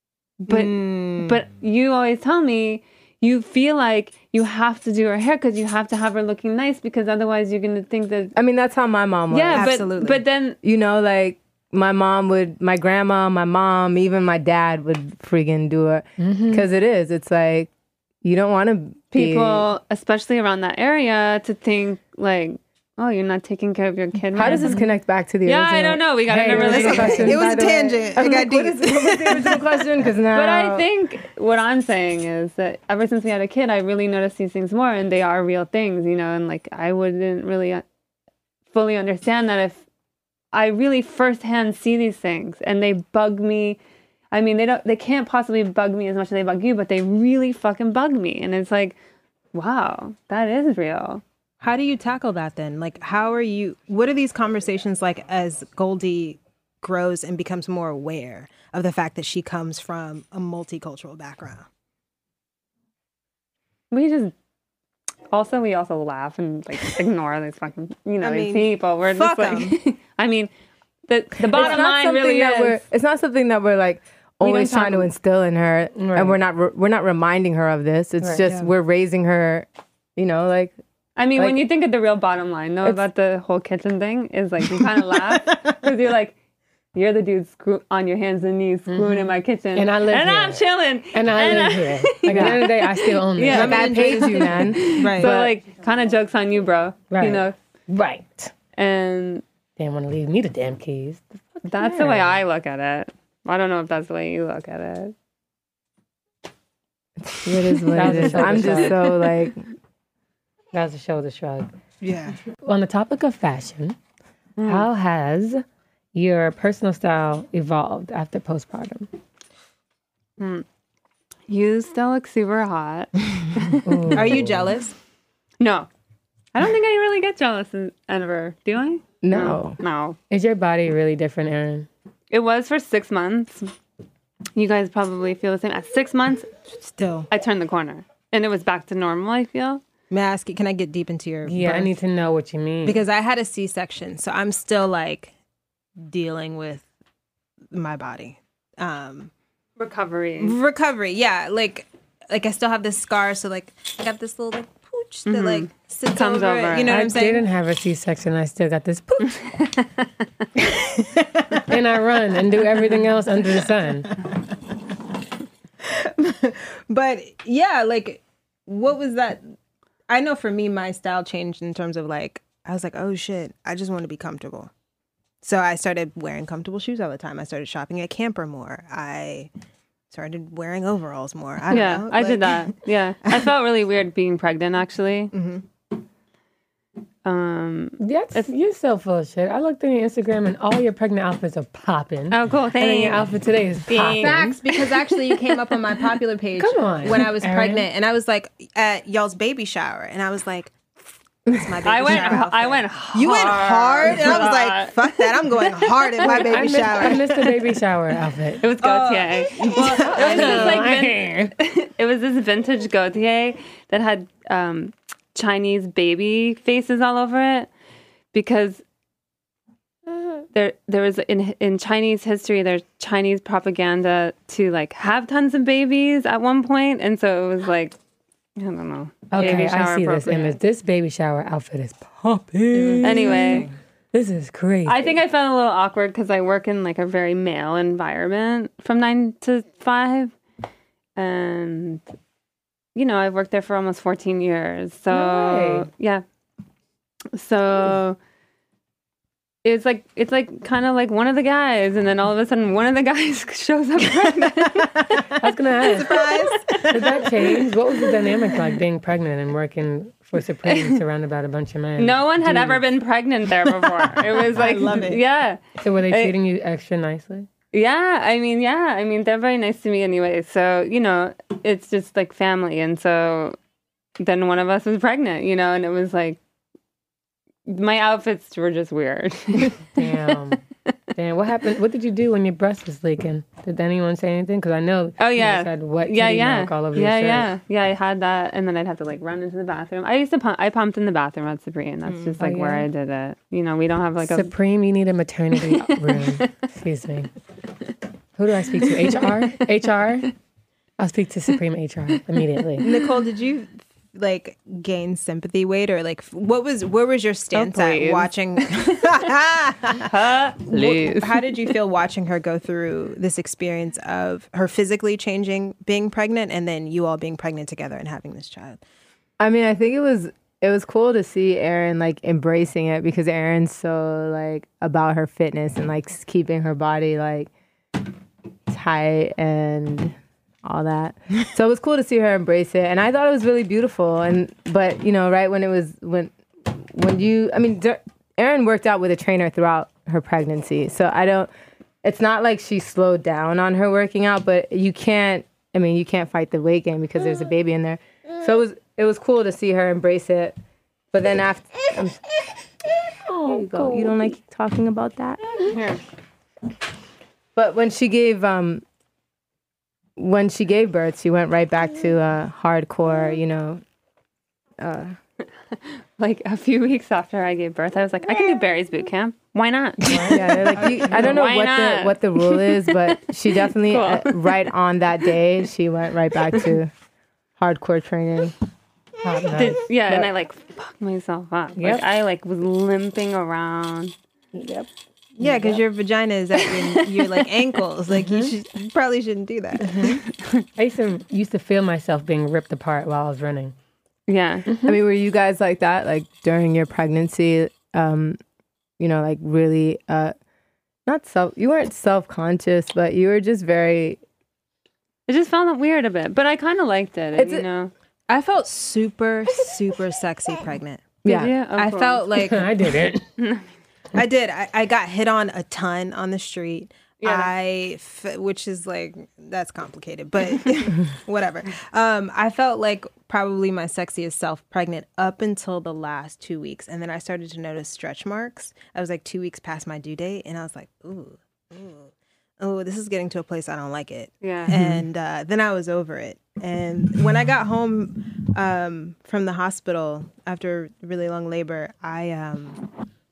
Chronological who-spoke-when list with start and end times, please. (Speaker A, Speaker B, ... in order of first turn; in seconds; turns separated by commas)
Speaker A: 0.4-8.4, Speaker B: 0.5-1.4, Speaker C: 8.4-9.7, Speaker A: 9.3-10.6, Speaker B: 9.5-10.2, Speaker C: 10.6-17.7, Speaker D: 16.2-16.7, Speaker C: 18.2-19.7, Speaker A: 19.1-24.8, Speaker C: 24.4-30.9, Speaker D: 24.6-24.9, Speaker A: 25.4-27.4, Speaker D: 26.3-27.4, Speaker B: 26.6-29.9, Speaker A: 30.3-37.8, Speaker A: 38.7-39.8, Speaker A: 40.5-43.8, Speaker A: 44.3-49.0, Speaker A: 49.5-51.2, Speaker B: 51.6-61.7, Speaker A: 63.9-64.3, Speaker A: 65.3-70.5, Speaker B: 68.2-69.8, Speaker A: 71.1-72.8, Speaker C: 71.5-80.7, Speaker A: 74.4-75.1, Speaker D: 76.0-76.4, Speaker D: 78.2-78.5, Speaker A: 81.2-86.4, Speaker C: 81.4-81.6, Speaker A: 86.9-97.6, Speaker D: 88.9-93.9, Speaker C: 92.3-92.7, Speaker C: 93.5-95.5, Speaker B: 93.5-95.3, Speaker D: 97.1-98.5, Speaker A: 98.8-99.4, Speaker D: 99.8-102.4, Speaker A: 101.7-105.1, Speaker C: 107.3-109.6, Speaker D: 107.9-109.1, Speaker D: 110.7-111.7, Speaker B: 112.0-112.4, Speaker D: 112.6-114.0, Speaker A: 114.6-114.9, Speaker D: 114.7-119.1, Speaker A: 120.4-120.7, Speaker A: 121.5-124.1, Speaker D: 123.8-124.7, Speaker B: 124.1-125.0, Speaker A: 125.6-125.9, Speaker A: 126.5-130.2, Speaker C: 129.2-129.8, Speaker D: 130.3-131.9, Speaker A: 132.3-133.7, Speaker A: 134.6-136.5, Speaker B: 136.9-137.3, Speaker A: 137.3-139.8, Speaker B: 140.1-141.9, Speaker D: 141.5-143.0, Speaker B: 142.8-145.3, Speaker B: 146.0-146.8, Speaker B: 147.7-149.3, Speaker A: 149.8-150.6, Speaker B: 150.4-157.5, Speaker A: 155.3-157.0, Speaker D: 156.9-159.4, Speaker A: 159.4-160.1, Speaker B: 161.0-161.6, Speaker D: 161.5-164.2, Speaker B: 165.8-169.4, Speaker B: 170.1-174.7, Speaker B: 175.4-179.5, Speaker B: 180.1-183.3, Speaker A: 181.7-185.3, Speaker B: 185.3-185.7, Speaker A: 187.2-188.5, Speaker D: 188.0-194.6, Speaker A: 192.3-193.3, Speaker A: 193.9-194.8, Speaker B: 194.2-200.8, Speaker D: 196.6-197.9, Speaker B: 201.5-207.3, Speaker A: 201.8-207.4, Speaker D: 206.2-208.7, Speaker A: 208.6-217.7, Speaker B: 208.8-210.9, Speaker D: 209.8-211.6, Speaker A: 218.3-218.8, Speaker A: 220.5-228.0, Speaker A: 228.6-230.6, Speaker D: 229.3-235.2, Speaker B: 232.7-233.7, Speaker A: 233.0-233.7, Speaker A: 234.9-240.3, Speaker A: 241.2-242.0, Speaker A: 242.9-246.2, Speaker D: 245.1-245.9, Speaker A: 247.3-248.2, Speaker A: 249.6-255.2, Speaker D: 255.4-256.2, Speaker B: 255.8-257.3, Speaker A: 256.1-257.0, Speaker D: 256.9-262.8, Speaker A: 262.0-266.3, Speaker B: 264.5-265.2, Speaker D: 265.8-267.5, Speaker A: 267.7-273.6, Speaker A: 274.2-276.4, Speaker A: 277.7-280.5, Speaker D: 279.9-280.6, Speaker D: 281.1-287.5, Speaker A: 285.2-294.5, Speaker B: 292.1-292.4, Speaker D: 292.4-292.9, Speaker D: 294.2-297.3, Speaker A: 295.6-296.5, Speaker D: 298.4-300.3, Speaker A: 299.2-299.6, Speaker D: 301.0-302.9, Speaker B: 302.8-310.1, Speaker A: 307.5-309.2, Speaker A: 310.0-311.5, Speaker B: 310.6-318.8, Speaker C: 319.4-327.5, Speaker C: 328.7-341.5, Speaker C: 342.0-350.6, Speaker C: 351.1-352.2, Speaker D: 353.3-354.3, Speaker C: 353.3-355.4, Speaker A: 355.6-356.0, Speaker C: 357.6-358.8, Speaker C: 360.2-363.8, Speaker C: 364.8-365.2, Speaker A: 366.2-374.7, Speaker D: 370.1-371.4, Speaker C: 370.3-376.9, Speaker C: 377.6-378.5, Speaker D: 379.2-379.8, Speaker A: 379.6-384.1, Speaker D: 381.8-382.0, Speaker D: 384.5-384.9, Speaker B: 385.4-390.2, Speaker D: 385.4-385.8, Speaker A: 387.2-387.5, Speaker D: 389.8-390.2, Speaker D: 390.8-393.8, Speaker A: 394.3-394.7, Speaker D: 394.7-395.0, Speaker C: 394.8-398.4, Speaker C: 399.0-400.3, Speaker C: 401.1-404.2, Speaker A: 405.3-407.9, Speaker C: 407.4-407.6, Speaker B: 408.3-411.1, Speaker C: 411.2-411.5, Speaker A: 411.3-412.2, Speaker B: 411.8-412.7, Speaker D: 412.4-413.3, Speaker A: 413.4-413.6, Speaker B: 414.1-442.9, Speaker A: 417.2-417.5, Speaker A: 434.4-434.8, Speaker D: 434.7-435.0